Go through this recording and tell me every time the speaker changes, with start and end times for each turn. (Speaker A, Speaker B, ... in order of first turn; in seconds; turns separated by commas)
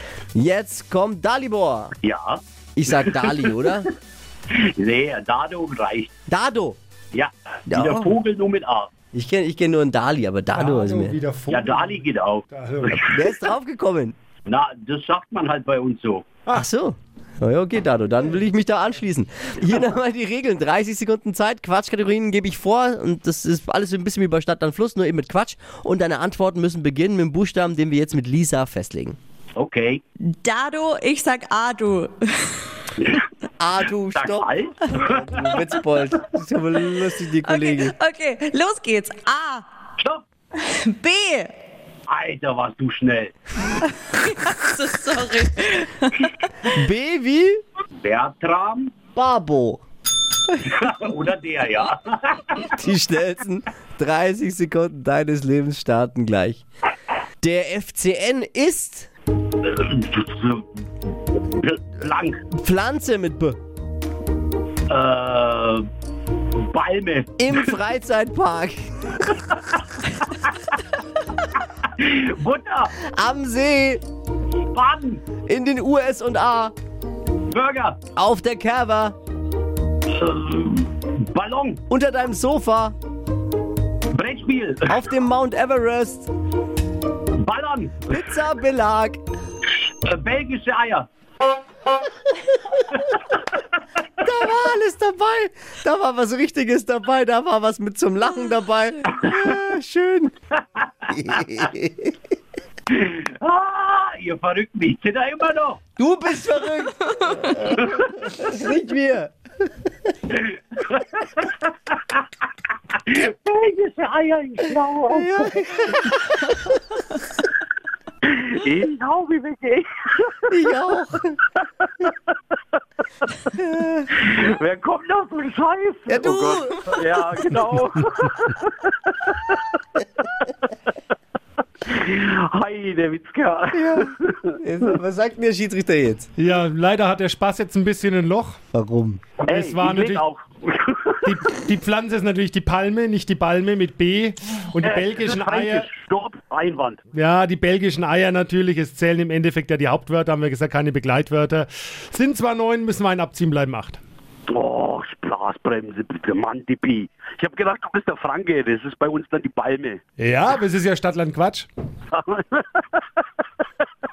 Speaker A: 0.3-1.9, Speaker B: 2.0-3.6, Speaker A: 2.8-3.9, Speaker B: 4.5-6.1, Speaker A: 6.3-6.8, Speaker B: 7.1-8.9, Speaker A: 7.7-8.1, Speaker A: 9.1-11.2, Speaker C: 10.5-13.0, Speaker B: 11.5-13.4, Speaker A: 12.9-14.2, Speaker B: 14.4-16.3, Speaker A: 16.5-29.2, Speaker B: 29.6-30.0, Speaker D: 30.3-32.6, Speaker B: 33.0-33.3, Speaker A: 33.6-38.0, Speaker B: 34.0-35.7, Speaker D: 37.4-39.7, Speaker B: 40.0-40.2, Speaker D: 40.6-41.5, Speaker B: 42.1-43.9, Speaker D: 44.1-46.4, Speaker A: 46.7-47.6, Speaker B: 48.0-48.9, Speaker A: 49.1-49.8, Speaker B: 50.6-52.8, Speaker A: 52.7-56.6, Speaker A: 57.4-59.1, Speaker B: 59.5-60.7, Speaker B: 61.3-62.5, Speaker A: 62.5-63.6, Speaker B: 64.9-65.9, Speaker B: 66.6-67.7, Speaker A: 67.4-68.9, Speaker B: 69.3-70.7, Speaker B: 71.8-72.9, Speaker A: 73.0-74.0, Speaker B: 74.7-75.2, Speaker A: 75.5-76.7, Speaker B: 77.5-78.0, Speaker A: 78.2-79.2, Speaker B: 80.1-81.8, Speaker A: 81.9-83.0, Speaker B: 84.1-85.0, Speaker A: 84.9-86.3, Speaker B: 87.4-88.2, Speaker A: 88.1-89.2, Speaker B: 89.7-91.1, Speaker B: 92.8-93.6, Speaker A: 94.2-100.3, Speaker B: 100.8-101.7, Speaker A: 101.1-102.1, Speaker B: 102.9-105.8, Speaker A: 106.0-109.3, Speaker B: 107.4-108.4, Speaker B: 110.3-112.3, Speaker B: 112.9-115.6, Speaker A: 115.1-116.7, Speaker B: 118.2-120.5, Speaker A: 120.5-121.4, Speaker B: 121.6-122.6, Speaker B: 123.2-123.5, Speaker A: 123.5-124.1, Speaker B: 124.1-129.6, Speaker A: 126.1-127.5, Speaker B: 131.8-134.6, Speaker A: 133.7-136.3, Speaker C: 136.4-138.6, Speaker A: 138.7-139.2, Speaker B: 139.4-141.4, Speaker C: 139.5-140.2, Speaker C: 141.2-145.9, Speaker B: 144.8-147.0, Speaker C: 147.1-154.0, Speaker B: 154.5-160.0, Speaker C: 160.2-161.7, Speaker B: 162.1-163.1